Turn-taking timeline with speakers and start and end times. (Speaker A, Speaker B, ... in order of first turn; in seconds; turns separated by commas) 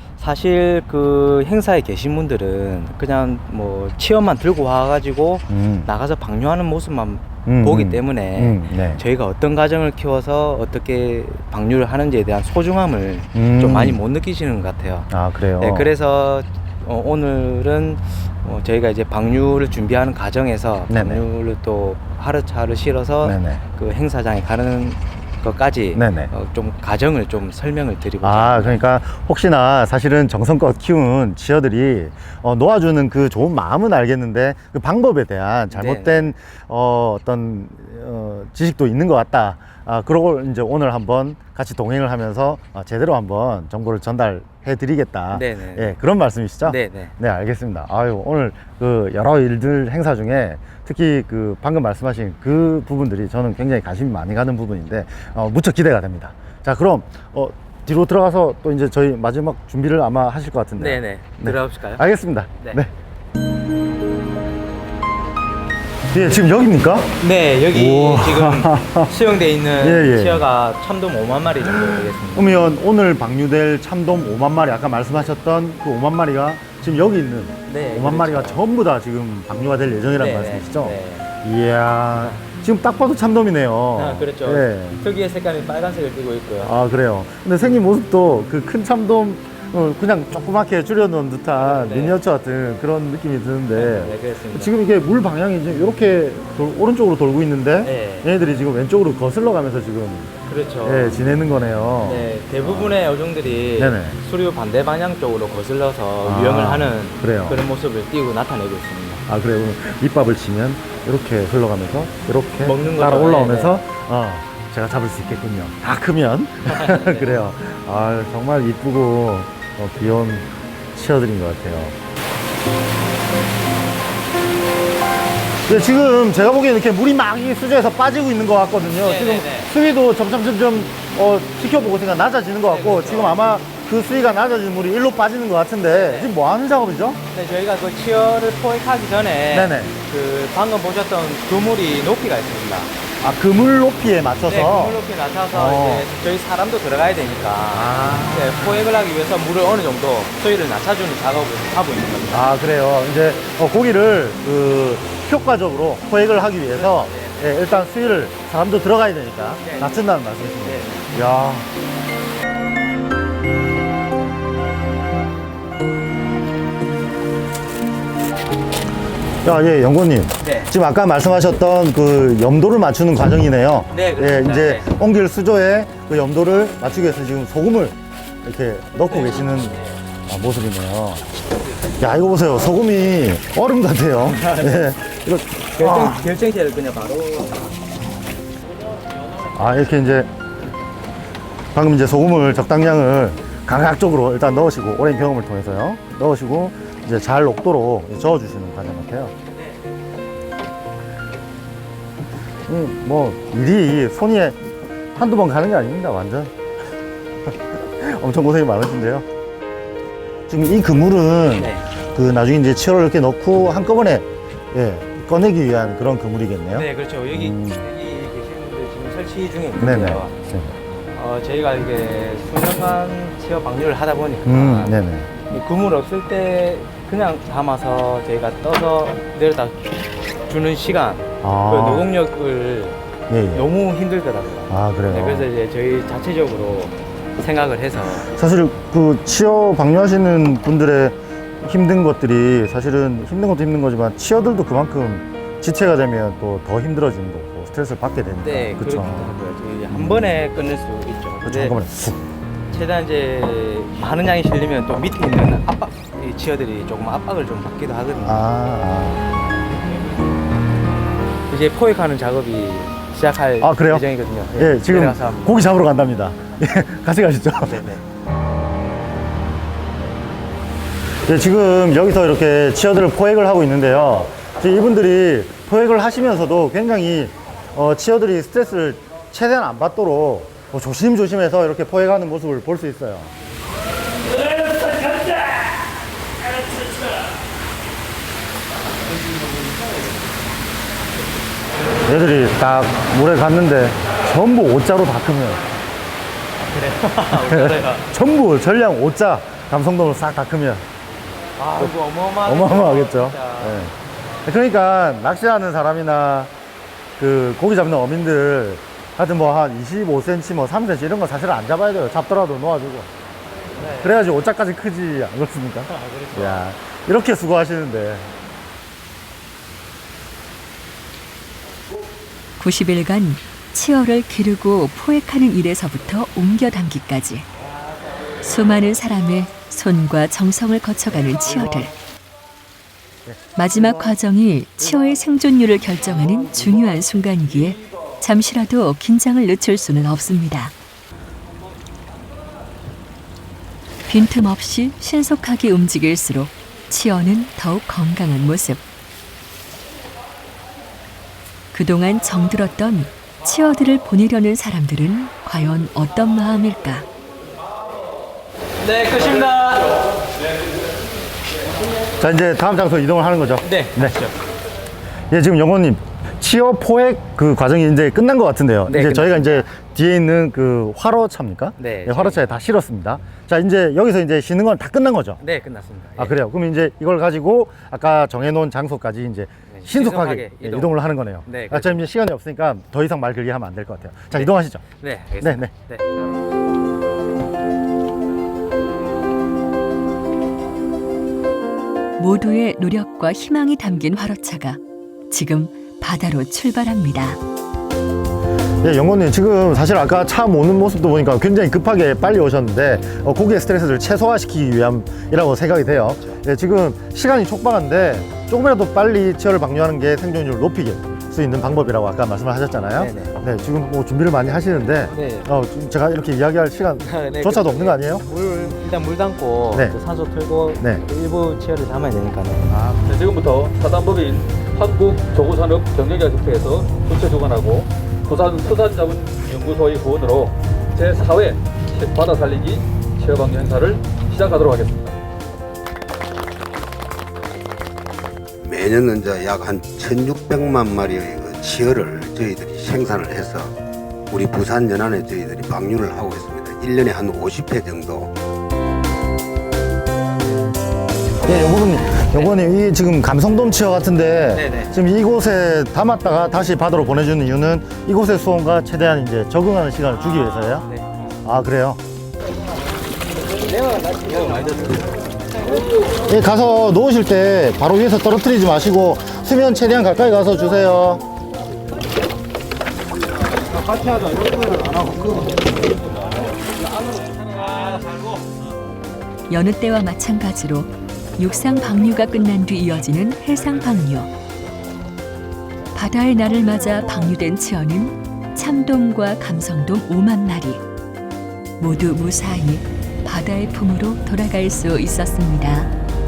Speaker A: 0.2-15.1, Speaker B: 5.5-5.9, Speaker B: 7.5-9.0, Speaker B: 13.3-14.0, Speaker B: 15.1-15.9, Speaker A: 15.6-28.8, Speaker B: 20.9-21.2, Speaker B: 23.2-23.6, Speaker B: 25.9-26.3, Speaker B: 28.2-62.9, Speaker A: 35.7-36.3, Speaker A: 45.3-46.0, Speaker A: 46.6-47.1, Speaker A: 60.8-62.0, Speaker B: 66.1-67.2, Speaker A: 67.2-72.6, Speaker B: 67.7-69.1, Speaker B: 69.8-70.5, Speaker B: 72.3-85.0, Speaker A: 77.7-78.6, Speaker A: 80.2-81.2, Speaker A: 82.2-82.5, Speaker A: 84.0-86.8, Speaker B: 86.6-103.0, Speaker A: 91.5-92.2, Speaker A: 93.7-94.7, Speaker A: 97.8-98.3, Speaker A: 100.5-101.2, Speaker A: 102.0-109.2, Speaker B: 103.7-104.2, Speaker B: 106.2-107.6, Speaker B: 109.3-122.0, Speaker A: 112.6-113.7, Speaker A: 116.6-117.3, Speaker B: 125.7-137.2, Speaker A: 129.0-129.7, Speaker A: 132.6-133.4, Speaker A: 135.9-136.3, Speaker A: 137.3-142.9, Speaker B: 139.5-139.9, Speaker B: 143.2-145.0, Speaker A: 144.4-152.4, Speaker B: 145.5-146.1, Speaker B: 147.7-148.7, Speaker B: 152.3-161.7, Speaker A: 156.7-157.5, Speaker A: 159.6-160.0, Speaker A: 160.6-161.1, Speaker B: 169.4-181.3, Speaker A: 170.4-170.7, Speaker A: 173.9-174.8, Speaker A: 179.1-180.0, Speaker B: 182.0-186.2, Speaker A: 184.2-184.9, Speaker A: 185.7-187.7, Speaker A: 189.4-189.9, Speaker B: 189.5-190.3, Speaker B: 191.7-199.3, Speaker B: 202.7-204.6, Speaker B: 205.2-206.5, Speaker B: 207.5-209.2, Speaker B: 210.5-217.9, Speaker A: 211.5-211.8, Speaker A: 216.7-220.3, Speaker B: 219.8-220.7, Speaker A: 220.9-233.0, Speaker B: 224.4-225.3, Speaker B: 231.4-232.1, Speaker B: 233.3-233.7, Speaker A: 233.5-238.3, Speaker B: 234.7-235.5, Speaker B: 238.3-249.3, Speaker A: 248.4-251.8, Speaker B: 249.9-250.4, Speaker B: 251.4-252.2, Speaker A: 252.7-258.4, Speaker B: 258.2-259.2, Speaker A: 261.5-265.7, Speaker B: 263.6-267.9, Speaker A: 267.7-268.0, Speaker B: 271.2-283.3, Speaker B: 292.1-295.6, Speaker A: 296.6-298.1, Speaker B: 297.3-300.8, Speaker A: 301.6-303.8, Speaker B: 301.8-303.9, Speaker B: 304.4-306.5, Speaker B: 307.2-313.1, Speaker A: 313.8-314.2, Speaker B: 314.0-318.3, Speaker A: 315.9-316.6, Speaker C: 322.6-327.5, Speaker C: 328.4-331.9, Speaker C: 333.6-340.7, Speaker C: 344.1-348.8, Speaker C: 351.7-357.1, Speaker A: 358.8-360.1, Speaker B: 362.2-364.2, Speaker A: 363.6-364.4, Speaker B: 365.3-375.4, Speaker A: 368.9-369.4, Speaker A: 371.8-372.6, Speaker A: 375.4-376.4, Speaker B: 376.2-384.8, Speaker A: 379.7-380.9, Speaker A: 381.4-382.1, Speaker A: 384.3-386.0, Speaker B: 385.4-385.7, Speaker C: 392.2-397.4, Speaker B: 398.8-418.2, Speaker A: 412.9-413.4, Speaker A: 415.1-415.5, Speaker A: 417.0-422.7, Speaker D: 422.9-435.1, Speaker E: 438.6-443.7, Speaker E: 444.3-448.3, Speaker B: 451.4-460.9, Speaker A: 454.5-454.9, Speaker A: 460.3-461.1, Speaker B: 461.4-462.0, Speaker A: 463.6-466.0, Speaker B: 466.2-471.2, Speaker C: 479.5-484.3, Speaker C: 485.9-490.8, Speaker C: 491.8-495.9